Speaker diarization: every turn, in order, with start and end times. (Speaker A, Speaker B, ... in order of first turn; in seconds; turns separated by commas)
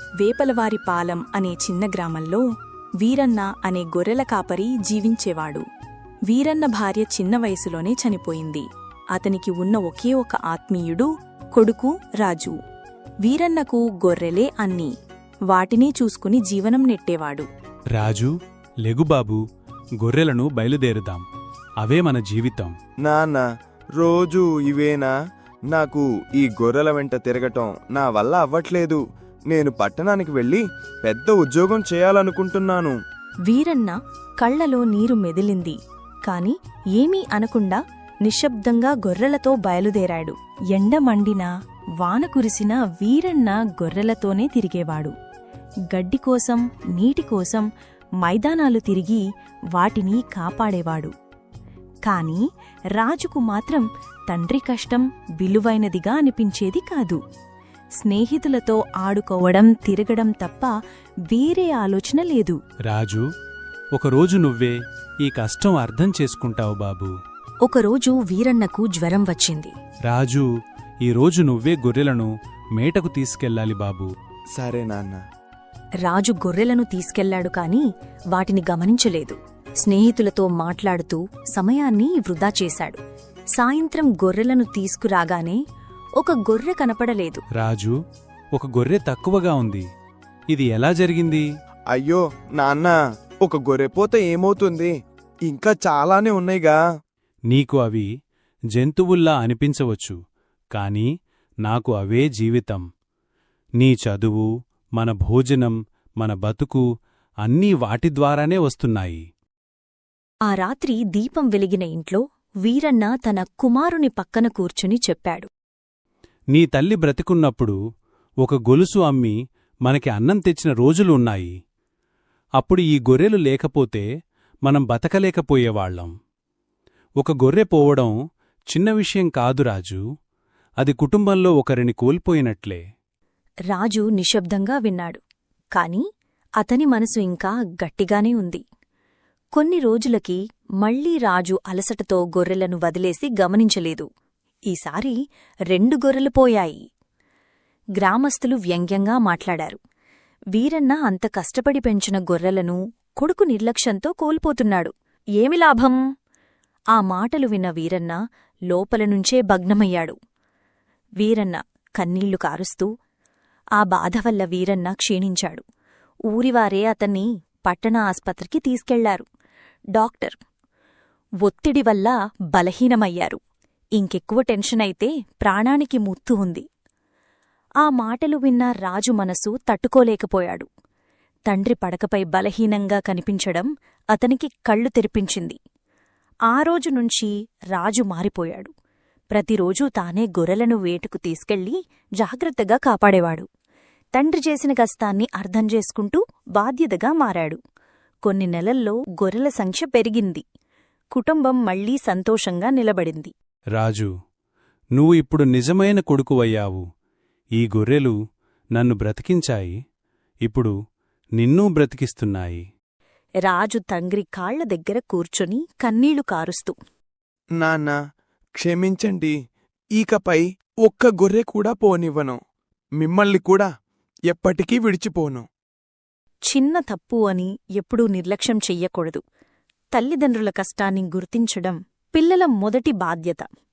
Speaker A: 0.2-2.4, Speaker A: 3.0-5.7, Speaker A: 6.3-12.6, Speaker A: 13.2-14.9, Speaker A: 15.5-17.5, Speaker B: 17.9-18.3, Speaker B: 18.8-19.4, Speaker B: 20.0-21.2, Speaker B: 21.8-22.8, Speaker C: 23.0-23.5, Speaker C: 24.0-25.1, Speaker C: 25.7-33.0, Speaker A: 33.5-45.1, Speaker A: 45.9-47.7, Speaker A: 48.2-51.1, Speaker A: 52.0-52.4, Speaker A: 53.0-57.2, Speaker A: 58.0-60.7, Speaker A: 61.3-62.6, Speaker B: 62.9-63.2, Speaker B: 64.0-67.1, Speaker A: 67.6-69.7, Speaker B: 70.1-70.5, Speaker B: 71.0-74.1, Speaker C: 74.5-75.2, Speaker A: 76.0-83.0, Speaker A: 83.6-85.6, Speaker A: 86.2-87.4, Speaker B: 87.6-87.9, Speaker B: 88.5-89.9, Speaker B: 90.5-91.5, Speaker C: 91.9-94.9, Speaker C: 95.5-96.8, Speaker B: 97.5-98.1, Speaker B: 98.7-100.2, Speaker B: 100.7-101.1, Speaker B: 101.6-102.8, Speaker B: 103.8-106.8, Speaker B: 107.4-109.2, Speaker A: 110.5-115.5, Speaker B: 116.5-117.8, Speaker B: 118.4-119.3, Speaker B: 119.8-121.5, Speaker B: 122.6-124.1, Speaker B: 124.7-126.1, Speaker B: 127.2-128.1, Speaker B: 128.7-130.0, Speaker B: 130.8-132.8, Speaker A: 133.7-135.2, Speaker A: 135.8-136.0, Speaker A: 136.6-138.6, Speaker A: 139.5-144.1, Speaker A: 144.7-145.2, Speaker A: 145.7-146.8, Speaker A: 148.0-149.8, Speaker A: 150.5-156.0, Speaker A: 156.9-158.2, Speaker A: 158.7-160.2, Speaker A: 161.2-162.9, Speaker A: 163.8-165.6, Speaker A: 166.3-169.3, Speaker A: 169.9-170.4, Speaker A: 171.4-173.4, Speaker A: 174.0-176.6, Speaker A: 177.8-180.7, Speaker A: 181.5-185.6, Speaker A: 186.5-188.7, Speaker A: 189.3-193.5, Speaker A: 194.1-197.6, Speaker A: 198.2-200.4, Speaker A: 201.1-203.3, Speaker B: 203.8-204.1, Speaker B: 204.9-206.8, Speaker B: 207.6-208.1, Speaker B: 208.8-209.8, Speaker B: 210.4-210.7, Speaker B: 211.4-212.6, Speaker A: 213.4-216.7, Speaker C: 217.6-218.0, Speaker C: 218.6-219.3, Speaker C: 220.0-222.4, Speaker C: 223.0-223.7, Speaker C: 224.3-225.4, Speaker A: 226.5-229.2, Speaker A: 229.9-233.5